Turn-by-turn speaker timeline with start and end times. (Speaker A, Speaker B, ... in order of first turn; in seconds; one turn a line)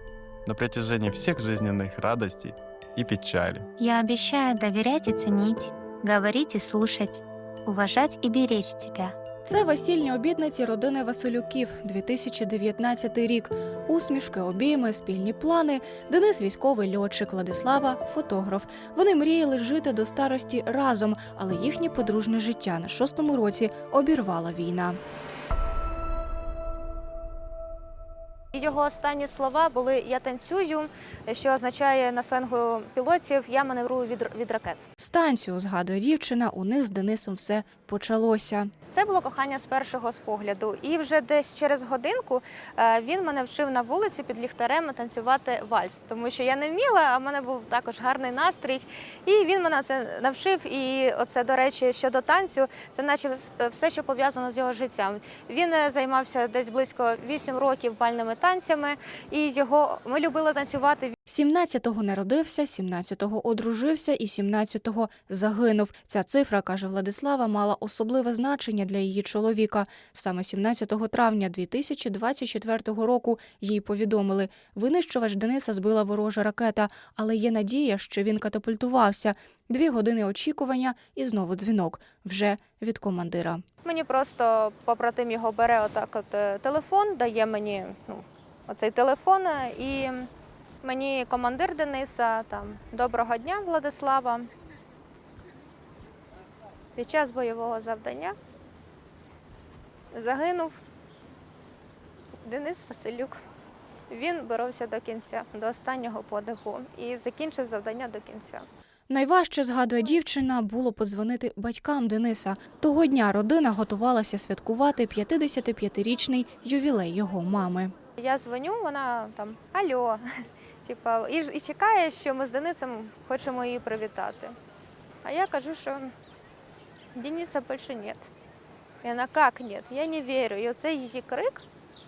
Speaker A: 0.5-3.7
Speaker B: 3.8-9.1
Speaker C: 9.4-25.0
Speaker D: 28.5-34.9
Speaker C: 35.0-38.7
Speaker D: 38.9-61.1
Speaker C: 61.3-83.6
Speaker D: 83.8-90.3
Speaker D: 90.8-94.5
Speaker D: 97.0-98.3
Speaker D: 100.1-100.8
Speaker D: 102.4-103.4
Speaker D: 104.1-108.7
Speaker C: 109.1-117.9
Speaker D: 118.2-120.2
Speaker D: 120.8-124.5
Speaker D: 125.2-126.1
Speaker D: 127.2-128.3
Speaker D: 129.0-131.6